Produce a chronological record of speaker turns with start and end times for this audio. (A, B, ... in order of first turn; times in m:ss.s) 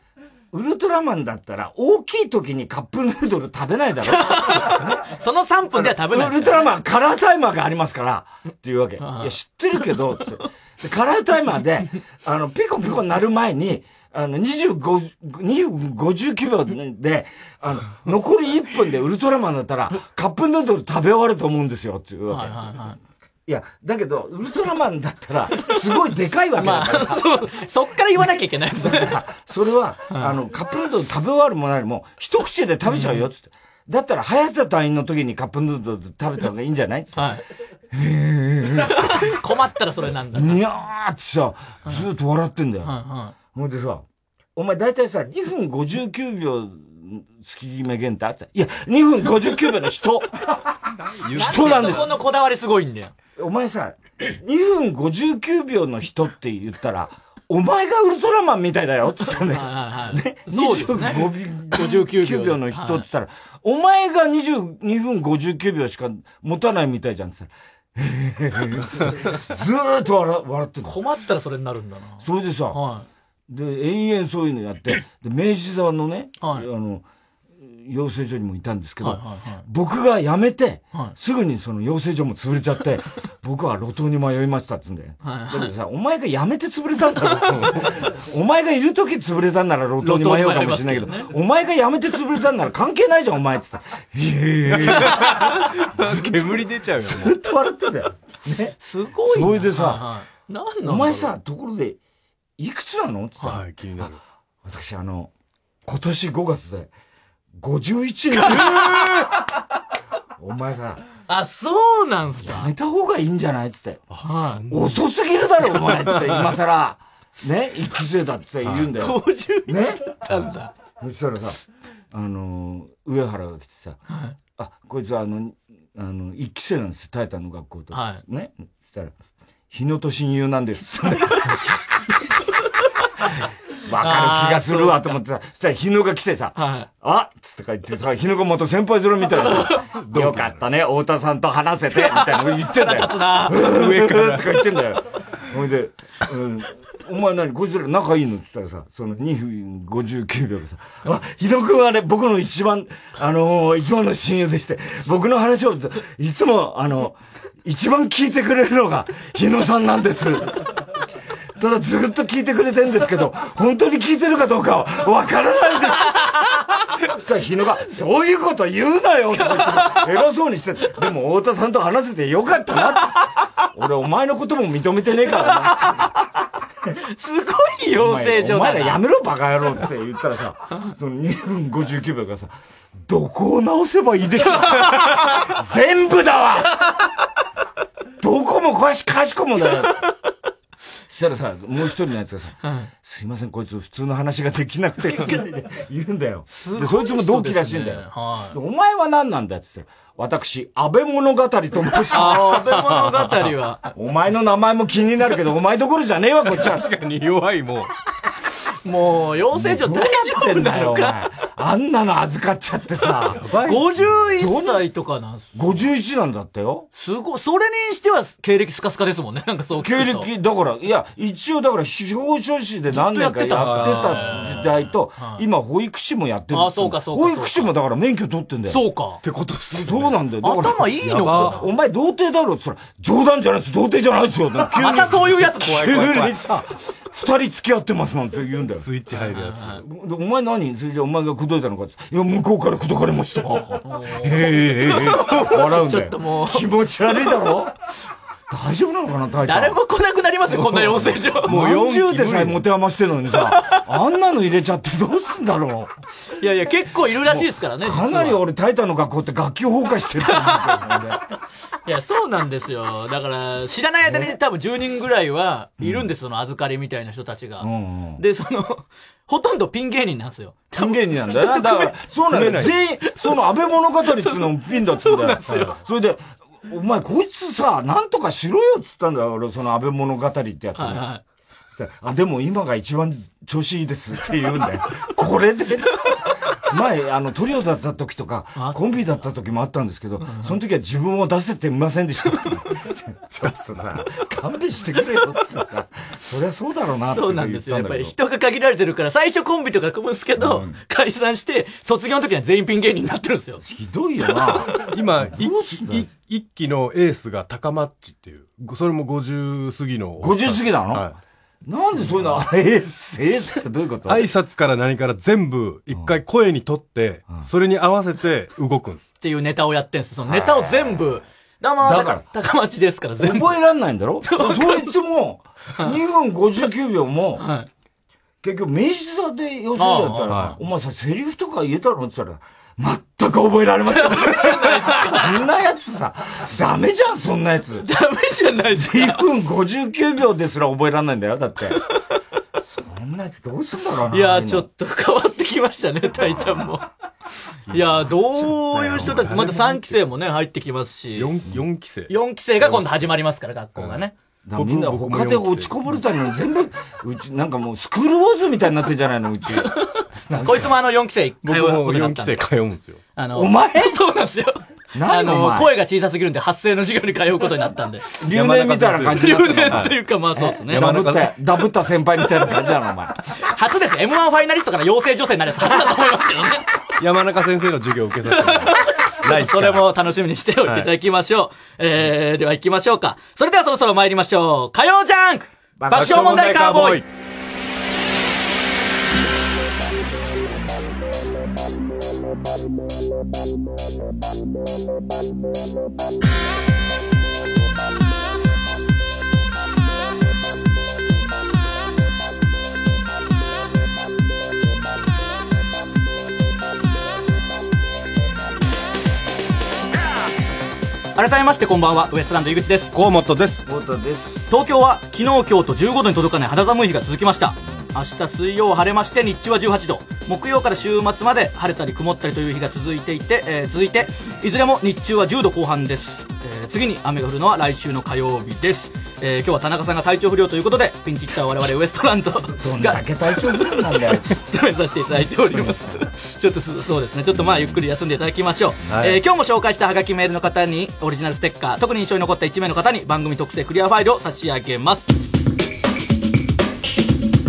0:00.5-0:05.0 A
0:04.1-0:06.7 B
0:05.7-0:22.7 A
0:09.0-0:09.4 B
0:22.3-0:23.0 B
0:23.5-0:27.3 A
0:26.6-0:29.2 B
0:28.7-0:37.3 A
0:30.1-0:30.4 B
0:32.9-0:33.3 B
0:37.2-0:37.4 B
0:37.9-0:39.3 A
0:38.9-0:40.6 B
0:40.3-0:42.9 A
0:42.8-0:43.3 B
0:43.5-0:44.0 A
0:44.6-0:50.6 A
0:51.2-0:52.0 C
0:51.3-0:52.1 A
0:51.4-0:53.1 B
0:53.4-1:11.0 A
0:59.5-1:03.0 B
1:10.8-1:13.1 B
1:12.2-1:12.8 A
1:13.5-1:17.0 A
1:16.4-1:16.7 B
1:17.6-1:38.7 A
1:19.0-1:19.6 B
1:25.2-1:25.7 B
1:30.0-1:31.3 B
1:34.7-1:37.4 C
1:38.8-1:41.3 B
1:39.2-1:40.1 A
1:40.8-1:42.0 A
1:42.6-1:43.6 A
1:43.4-1:44.2 C
1:44.6-1:45.3 A
1:45.9-1:46.9 A
1:47.6-1:49.2 A
1:48.3-1:49.0 B
1:50.4-1:51.0 A
1:51.3-1:52.7 B
1:52.4-1:54.0 A
1:54.1-1:55.0 C
1:54.2-1:54.6 B
1:54.7-2:00.2 A
1:55.8-1:56.4 C
1:59.0-2:00.7 B
2:01.0-2:01.6 A
2:02.1-2:04.0 A
2:04.6-2:09.1 A
2:07.9-2:08.2 B
2:09.7-2:11.6 A
2:13.9-2:40.6 A
2:14.0-2:15.0 B
2:16.6-2:16.9 B
2:19.4-2:19.8 B
2:20.0-2:20.6 C
2:22.1-2:23.9 B
2:23.8-2:24.6 C
2:41.6-2:46.4 A
2:47.0-2:56.2 A
2:49.4-2:50.1 B
2:55.4-2:56.0 B
2:57.1-2:59.0 B
2:58.0-3:02.5 A
3:03.0-3:06.9 A
3:08.2-3:10.0 A
3:11.1-3:22.7 A
3:16.5-3:18.6 B
3:22.1-3:23.8 B
3:22.1-3:23.5 C
3:24.0-3:26.9 A
3:26.6-3:27.9 C
3:28.8-3:31.2 B
3:29.5-3:33.4 A
3:33.4-3:34.3 C
3:33.6-3:35.8 B
3:34.4-3:34.8 A
3:35.5-3:36.9 A
3:36.9-3:40.3 B
3:39.8-3:48.8 A
3:42.9-3:45.4 B
3:43.6-3:44.6 C
3:46.5-3:47.7 B
3:48.7-3:49.2 B
3:49.2-3:50.2 C
3:49.7-3:58.9 A
3:50.4-3:51.7 B
3:51.0-3:51.7 C
3:54.7-3:56.0 B
3:55.4-3:56.4 C
3:58.8-3:59.8 C
3:59.1-3:59.8 B
3:59.8-4:07.8 A
4:03.8-4:07.3 B
4:08.5-4:09.8 A
4:09.4-4:11.6 B
4:10.6-4:15.9 A
4:11.4-4:12.6 C
4:16.4-4:18.4 B
4:17.2-4:21.2 A
4:20.3-4:20.8 B
4:21.9-4:31.9 B
4:25.8-4:26.1 A
4:27.6-4:28.2 A
4:30.7-4:41.1 A
4:32.3-4:32.8 C
4:35.0-4:35.8 B
4:35.5-4:35.8 C
4:40.8-4:41.2 B
4:41.8-4:58.2 A
4:50.2-4:50.6 B
4:57.1-5:03.6 B
5:00.4-5:00.8 A
5:03.6-5:06.1 A
5:04.8-5:11.2 C
5:10.2-5:11.1 A
5:11.6-5:14.3 A
5:14.1-5:19.1 C
5:19.2-5:23.6 B
5:20.2-5:21.1 A
5:21.8-5:22.2 A
5:23.2-5:27.5 A
5:24.3-5:24.9 B
5:27.4-5:27.7 B
5:28.4-5:37.9 A
5:29.8-5:30.6 B
5:30.3-5:30.6 C
5:33.9-5:35.3 B
5:37.8-5:39.2 B
5:38.8-5:41.8 A
5:42.6-5:44.7 A
5:44.1-5:46.8 B
5:47.4-5:50.0 C
5:47.7-5:51.3 B
5:48.9-5:49.2 A
5:51.2-5:53.1 C
5:52.1-5:54.1 B
5:54.4-5:59.7 A
5:54.6-5:56.0 C
6:00.3-6:00.7 A
6:00.3-6:02.4 B
6:01.4-6:03.0 C
6:03.2-6:08.2 B
6:03.3-6:04.0 A
6:04.9-6:05.7 A
6:08.2-6:09.9 A
6:08.3-6:11.4 C
6:09.1-6:11.0 B
6:10.7-6:13.2 A
6:13.4-6:16.6 B
6:17.0-6:20.0 C
6:18.3-6:27.0 B
6:20.6-6:20.9 C
6:25.9-6:27.1 C
6:51.2-6:52.9 B
6:52.9-6:53.6 C
6:53.7-6:54.5 A
6:54.5-7:25.1 B
7:12.5-7:14.3 A
7:18.9-7:19.2 C